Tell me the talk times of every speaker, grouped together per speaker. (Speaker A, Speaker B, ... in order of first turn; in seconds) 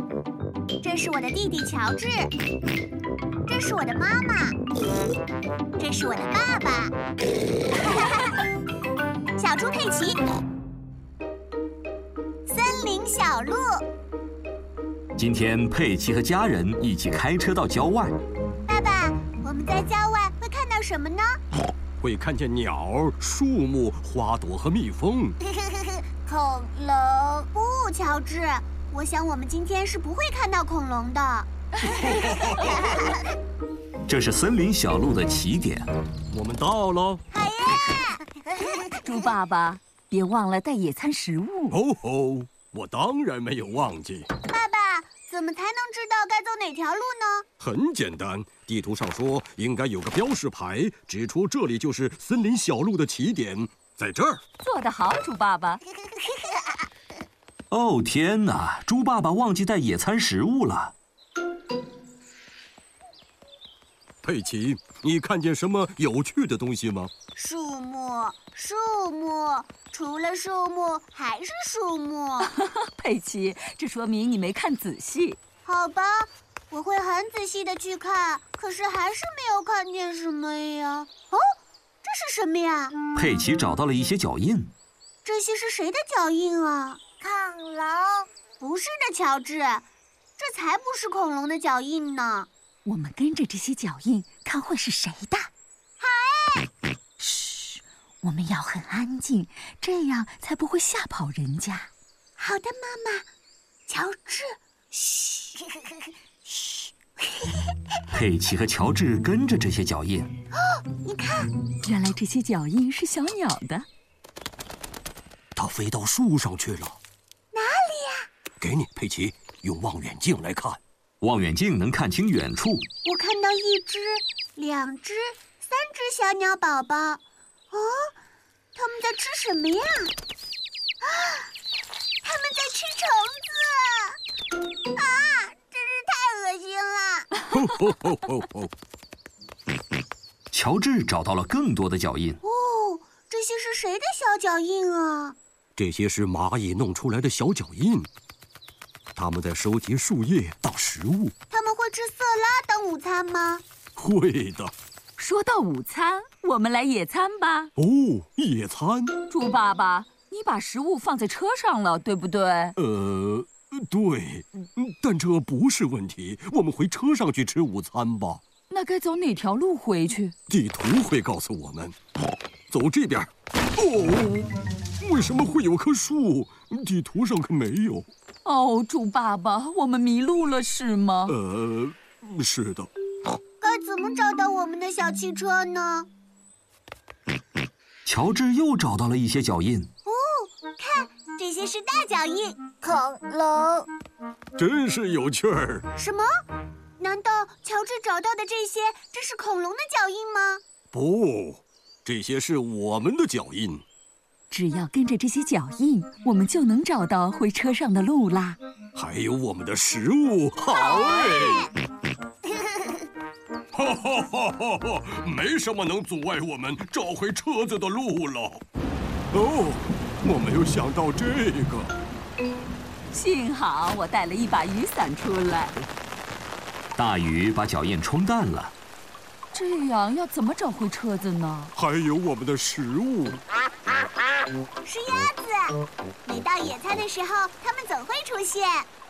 Speaker A: 0.8-2.3, 3.5-4.6, 5.8-6.9, 9.4-10.2, 12.5-13.8, 18.7-21.4, 25.5-33.1, 37.3-38.9, 44.5-47.5, 67.4-72.5, 75.7-81.4, 82.0-83.0, 85.2-89.8, 90.4-92.5, 96.0-96.7, 102.4-103.3, 103.9-107.7, 110.5-111.5, 117.5-118.3, 123.0-128.1, 128.8-130.1, 131.0-131.5, 132.2-134.2, 134.9-137.3, 142.4-145.4, 151.5-153.6, 183.6-186.1, 190.1-193.9, 195.9-196.3, 197.0-200.6, 210.7-211.7, 234.8-238.9
Speaker B: 15.2-18.2, 34.1-35.9, 57.7-61.0, 83.2-84.7, 108.1-110.3, 121.2-122.9, 140.5-142.4, 188.1-189.9, 227.0-228.8
Speaker C: 22.0-25.4, 36.3-37.2, 41.7-44.3, 47.6-54.4, 64.2-67.1, 115.6-117.0, 118.6-120.8, 137.5-138.7, 145.8-148.1, 149.2-151.3, 154.0-154.7, 157.8-159.2, 162.8-168.4, 170.5-172.0, 172.7-178.1, 181.3-182.9, 194.6-195.9, 200.9-203.8, 208.9-211.7, 213.7-218.6, 219.3-221.9, 231.8-233.4
Speaker D: 39.0-41.8, 54.6-55.8, 72.4-75.4, 92.8-95.5, 97.2-101.9, 111.8-113.9, 155.2-157.7, 159.3-162.8, 168.7-170.3, 178.4-181.4, 204.5-208.6, 223.1-225.8, 229.5-231.7